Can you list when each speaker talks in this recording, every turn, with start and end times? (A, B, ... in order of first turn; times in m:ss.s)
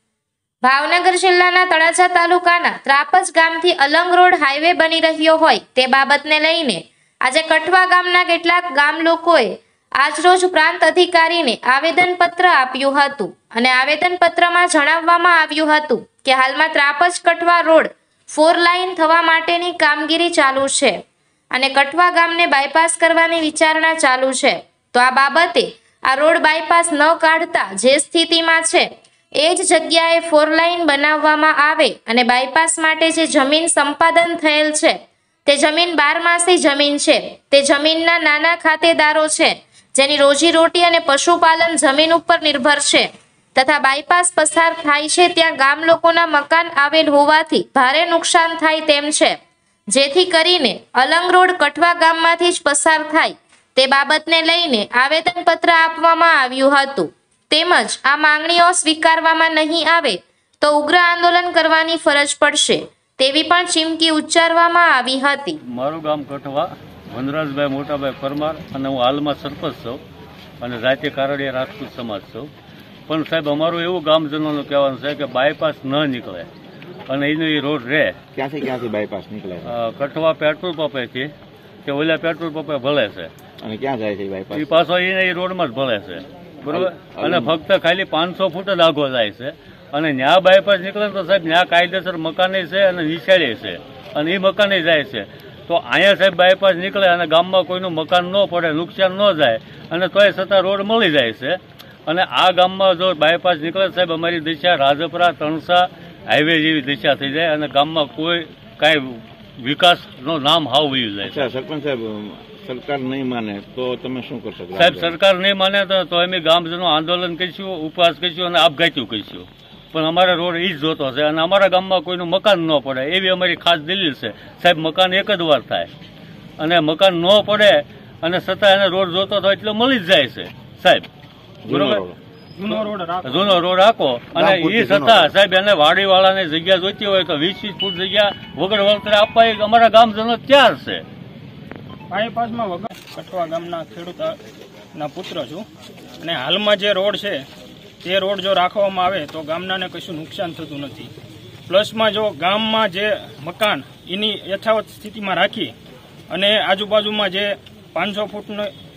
0:00.6-0:21.0 A
0:21.5-0:28.9 A
0:29.4-0:49.4 A
0:49.9-1:05.6 A
1:05.7-1:10.0 B
1:10.6-1:12.5 B
1:13.1-1:16.5 B
1:17.1-1:18.2 B
1:18.3-1:19.7 C
1:19.6-1:21.3 B
1:21.8-1:23.3 B
1:23.6-1:24.7 C
1:24.5-1:51.5 B
1:26.6-1:27.6 C
1:51.2-1:55.2 C
1:54.7-2:05.9 B
2:06.6-2:11.1 B
2:11.6-2:12.2 C
2:11.7-2:12.0 B
2:12.6-2:13.6 D
2:13.2-2:21.0 B
2:14.3-2:15.3 C
2:22.1-2:24.4 D
2:24.9-2:25.6 D
2:26.2-2:27.4 D
2:28.0-2:31.1 D
2:31.7-2:35.7 D
2:36.3-2:38.7 D